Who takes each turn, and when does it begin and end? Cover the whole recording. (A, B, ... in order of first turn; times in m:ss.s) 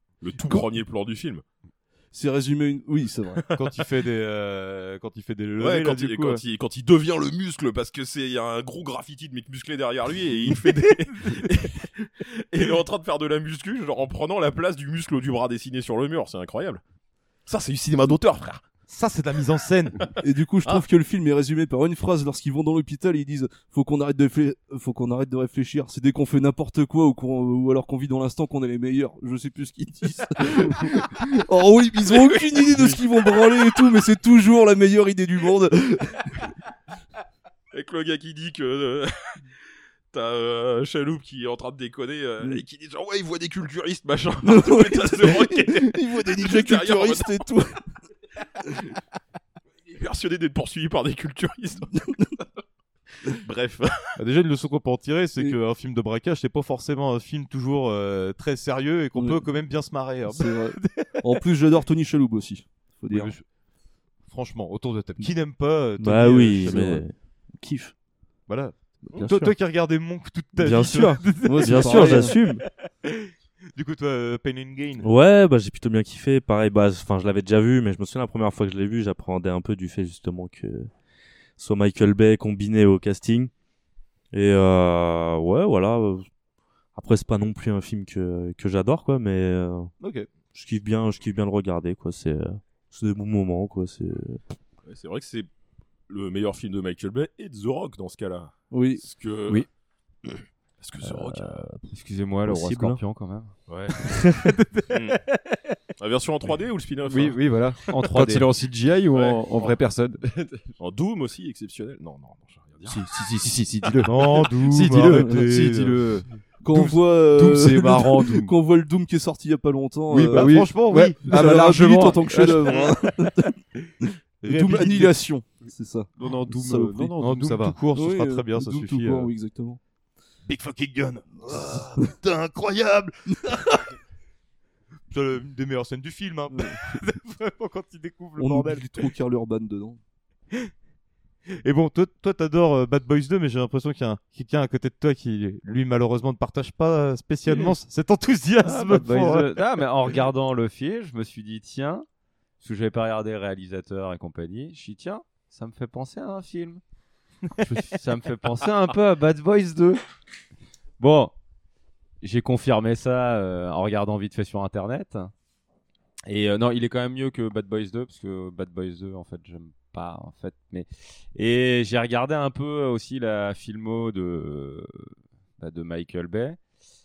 0:00.2-0:01.4 A
0:02.1-0:03.5 B
0:03.5-0:06.4 C
0:05.6-0:16.8 A
0:17.5-0:18.6 A
0:18.9-0:20.0 C
0:20.2-0:36.3 B
0:32.1-0:32.9 A
0:37.7-0:39.1 A
0:40.1-0:47.4 A
0:44.4-0:47.7 B
0:49.8-0:51.9 A
0:51.9-0:52.3 B
0:53.3-0:53.9 A
0:54.2-1:01.1 C
0:59.1-0:59.4 B
1:00.3-1:03.3 B
1:03.1-1:03.4 C
1:04.2-1:07.0 C
1:06.0-1:07.9 D
1:08.5-1:15.1 C
1:09.2-1:09.5 D
1:10.6-1:12.6 D
1:11.4-1:12.4 B
1:15.0-1:20.9 D
1:21.6-1:23.5 D
1:24.3-1:26.3 D
1:26.9-1:29.9 D
1:30.0-1:30.3 C
1:30.5-1:34.4 D
1:34.8-1:35.5 A
1:36.1-1:39.6 A
1:38.7-1:39.0 B
1:40.8-1:41.6 A
1:41.0-1:41.9 D
1:41.9-1:43.5 E
1:42.4-1:43.0 D
1:43.7-1:44.0 A
1:44.0-1:44.6 D
1:44.9-1:45.2 A
1:46.0-1:47.4 A
1:47.1-1:50.7 F
1:49.1-1:49.7 A
1:50.8-1:53.0 A
1:52.9-1:56.2 F
1:54.0-1:56.0 C
1:55.1-1:55.4 B
1:56.6-2:07.2 B
1:56.8-1:58.5 F
2:00.1-2:02.7 F
2:00.3-2:02.8 C
2:04.4-2:05.2 C
2:06.2-2:07.8 F
2:07.2-2:09.3 C
2:07.9-2:09.8 B
2:10.4-2:13.9 C
2:15.1-2:18.9 C
2:16.5-2:16.8 B
2:18.4-2:20.0 B
2:21.6-2:29.6 C
2:28.6-2:32.0 E
2:32.6-2:36.8 E
2:37.6-2:40.0 E
2:41.0-2:41.3 E
2:42.2-2:45.3 E
2:46.2-2:56.6 E